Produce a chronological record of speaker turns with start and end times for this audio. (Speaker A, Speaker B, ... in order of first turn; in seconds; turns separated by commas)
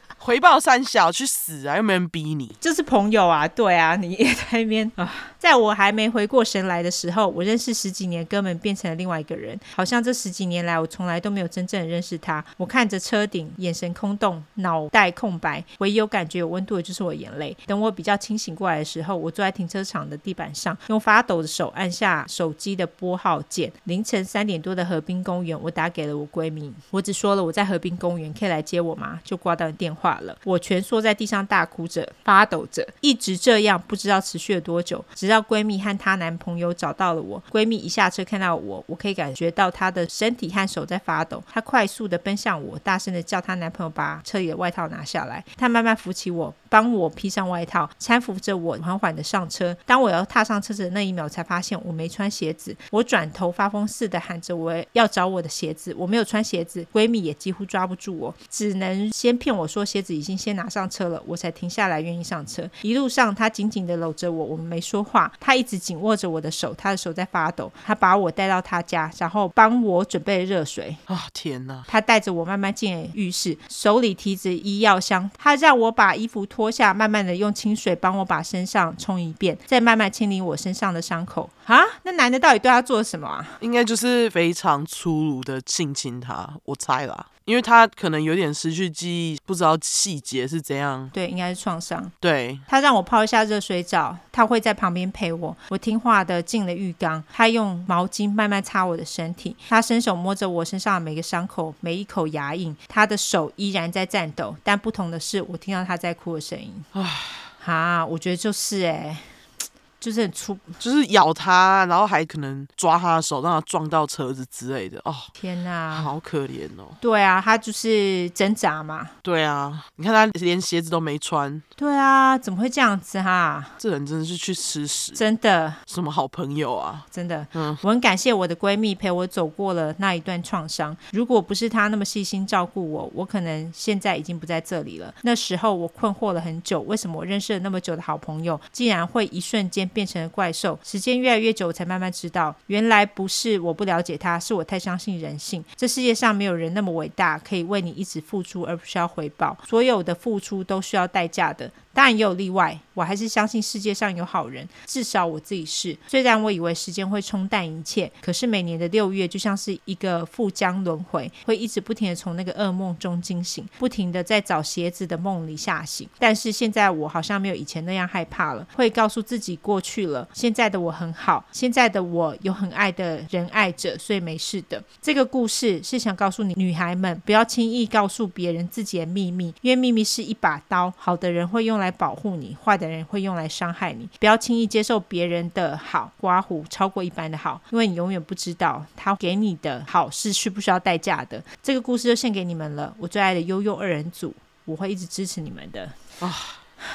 Speaker A: 0.2-2.6, Speaker B: 2.6-71.0, Speaker A: 71.1-71.9, Speaker B: 71.9-83.6, Speaker A: 83.6-91.1, Speaker B: 91.1-92.1, Speaker A: 92.2-92.6, Speaker B: 92.7-106.9, Speaker A: 106.9-107.5, Speaker B: 107.6-109.3, Speaker B: 110.0-110.8, Speaker A: 110.8-115.3, Speaker B: 115.4-116.1, Speaker A: 115.9-117.0, Speaker B: 117.0-119.2, Speaker A: 119.2-121.6, Speaker B: 121.8-123.8, Speaker A: 123.8-125.2, Speaker B: 125.2-125.8, Speaker A: 125.9-127.8, Speaker B: 127.1-196.0, Speaker A: 196.2-196.6